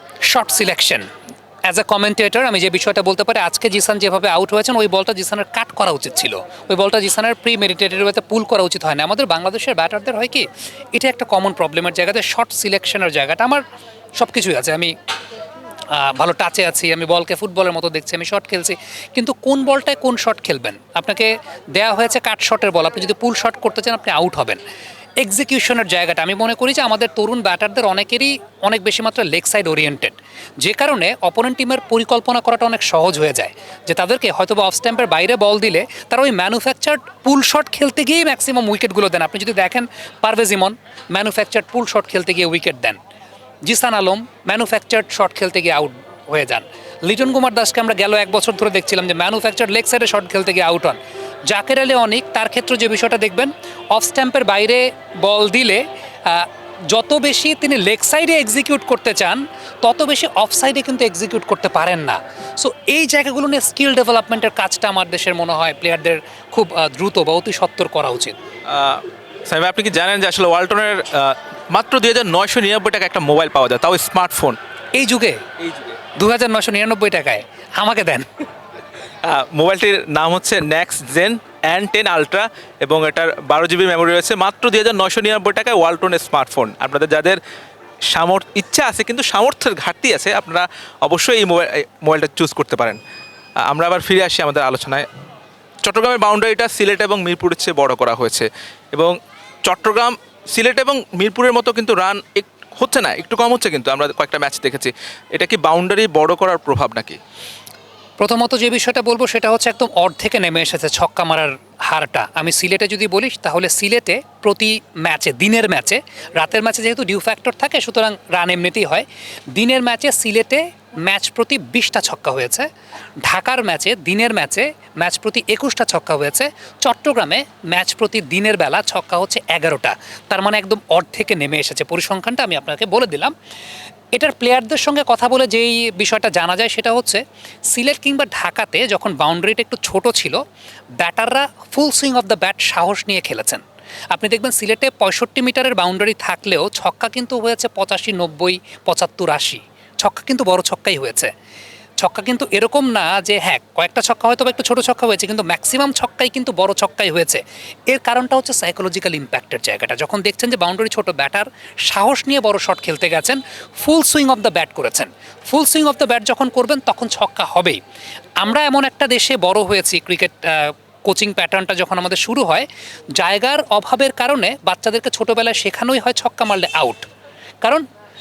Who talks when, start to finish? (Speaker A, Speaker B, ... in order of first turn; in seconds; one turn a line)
Speaker A: 0.2-1.1
Speaker A: 1.6-13.6
Speaker A: 14.2-14.9
Speaker A: 15.9-24.6
Speaker A: 25.2-43.0
Speaker A: 43.6-68.3
Speaker B: 68.7-74.6
Speaker A: 74.9-75.4
Speaker B: 75.6-76.0
Speaker A: 76.2-78.3
Speaker B: 79.2-87.4
Speaker B: 88.1-93.0
Speaker B: 93.7-95.0
Speaker B: 95.8-107.2
Speaker A: 108.2-122.7
Speaker A: 123.2-133.3
Speaker A: 134.1-140.4
Speaker A: 141.0-143.6
Speaker A: 144.1-151.3
Speaker A: 152.0-167.8
Speaker A: 168.4-177.1